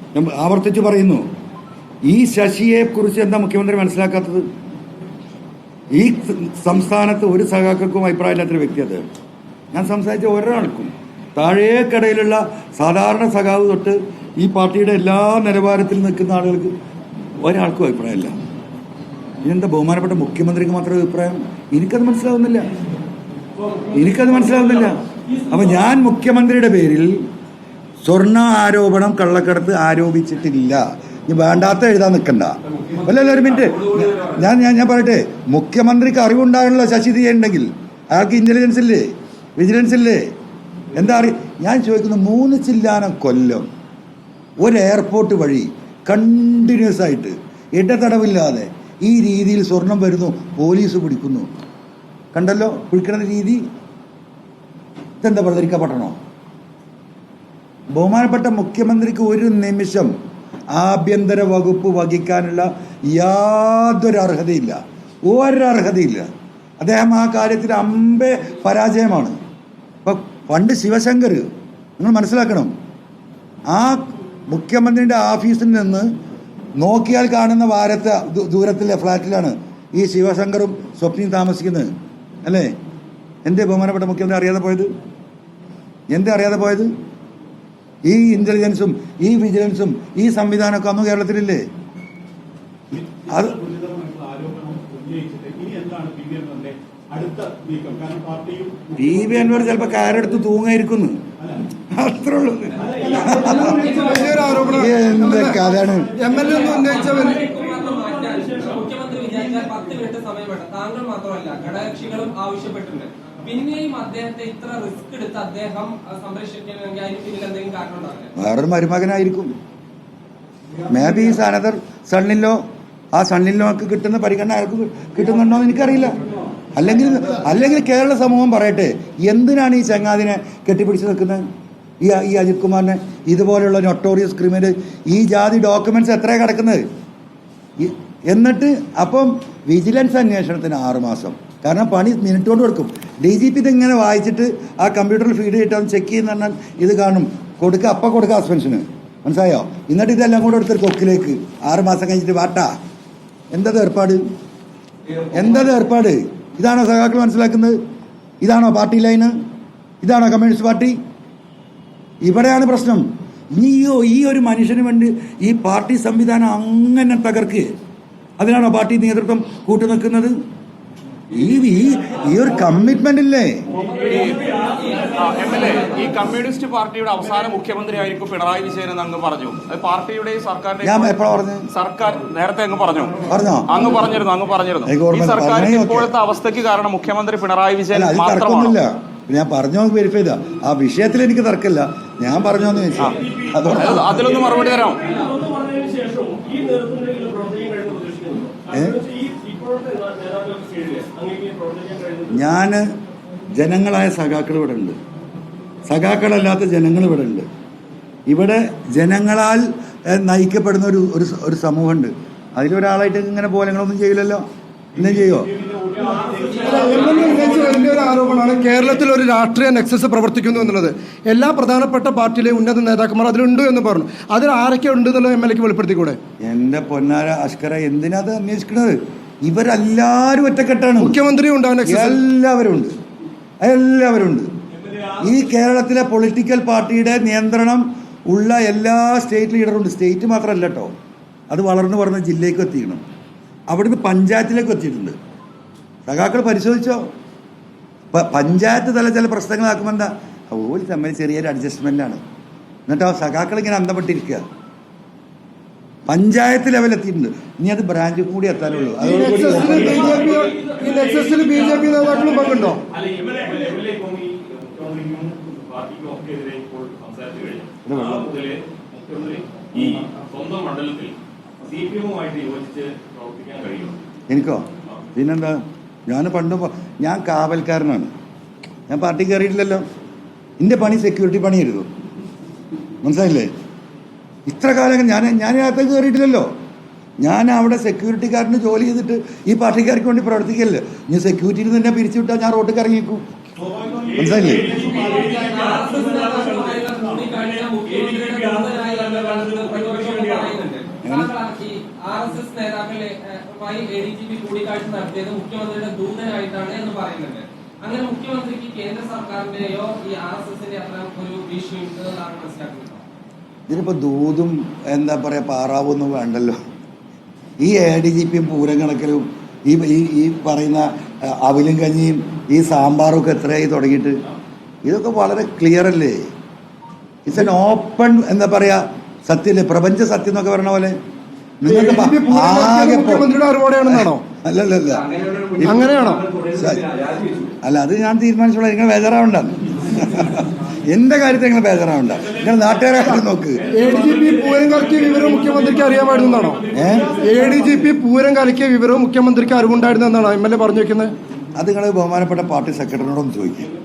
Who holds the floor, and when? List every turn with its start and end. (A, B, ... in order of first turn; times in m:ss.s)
0:00.1-0:01.2 A
0:02.0-0:04.4 A
0:05.9-0:09.0 A
0:09.7-0:16.7 A
0:17.4-0:18.3 A
0:19.4-0:22.7 A
0:23.9-0:27.2 A
0:28.0-0:40.3 A
0:33.4-0:34.4 B
0:40.9-0:43.6 A
0:44.6-0:51.5 A
0:52.3-0:53.6 A
0:55.2-0:56.2 A
0:58.0-1:00.1 A
1:00.7-1:06.2 A
1:06.8-1:09.4 A
1:10.0-1:11.5 A
1:12.0-1:12.7 A
1:13.7-1:16.1 A
1:16.8-1:21.9 A
1:22.4-1:22.7 A
1:23.4-1:24.9 A
1:26.1-1:26.9 A
1:28.0-1:31.6 A
1:33.0-1:39.7 C
1:33.3-1:33.6 A
1:39.0-1:41.2 A
1:41.9-1:43.7 A
1:42.8-1:48.7 C
1:43.6-1:44.8 D
1:43.7-1:45.6 E
1:44.6-1:46.2 A
1:46.1-1:47.4 E
1:46.4-1:58.3 D
1:58.4-1:59.5 A
2:00.9-2:02.6 A
2:03.1-2:06.2 A
2:06.7-2:11.4 A
2:12.0-2:16.8 A
2:17.8-2:32.7 A
2:33.5-2:34.2 A
2:35.3-2:37.8 A
2:38.4-2:39.3 A
2:40.0-2:41.0 A
2:42.2-2:43.0 A
2:43.5-2:47.7 A
2:48.4-2:50.3 A
2:51.3-2:53.6 A
2:53.8-2:56.1 D
2:53.9-3:01.2 B
3:00.8-3:01.7 A
3:01.7-3:08.8 B
3:03.3-3:03.8 A
3:04.8-3:06.1 A
3:07.9-3:14.4 A
3:13.2-3:13.5 C
3:13.7-3:15.1 B
3:14.3-3:22.4 C
3:18.7-3:19.0 A
3:22.3-3:22.8 A
3:23.6-3:25.0 A
3:25.9-3:27.4 A
3:28.3-3:34.4 A
3:34.9-3:35.5 A
3:35.0-3:38.2 C
3:36.4-3:38.1 D
3:36.6-3:46.2 E
3:46.4-3:51.2 A
3:51.0-3:52.2 E
3:51.8-3:52.9 A
3:53.6-3:54.5 A
3:55.2-4:00.9 A
4:01.5-4:03.0 A
4:03.7-4:05.1 A
4:06.0-4:07.0 A
4:08.1-4:12.2 A
4:12.9-4:14.4 A
4:16.1-4:20.2 A
4:19.0-4:22.8 E
4:19.4-4:20.9 C
4:19.9-4:20.3 D
4:20.5-4:22.3 B
4:22.9-4:34.0 B
4:27.8-4:28.3 A
4:34.3-4:38.1 A
4:38.9-4:39.8 A
4:40.6-4:41.9 A
4:43.0-4:43.5 A
4:44.4-4:46.5 A
4:47.2-4:53.2 A
4:53.6-4:57.2 C
4:54.1-4:54.8 A
4:54.7-5:13.0 D
4:59.0-4:59.4 C
5:01.0-5:01.3 A
5:13.7-5:16.6 A
5:17.6-5:24.2 A
5:24.8-5:26.2 A
5:27.2-5:30.9 A
5:31.6-5:33.3 A
5:31.6-5:34.2 E
5:33.8-5:35.9 A
5:35.6-5:36.3 E
5:36.5-5:36.9 A
5:36.9-5:37.4 D
5:37.6-5:43.7 A
5:43.6-5:47.8 C
5:43.7-5:51.1 E
5:46.7-5:47.2 A
5:51.5-5:53.7 A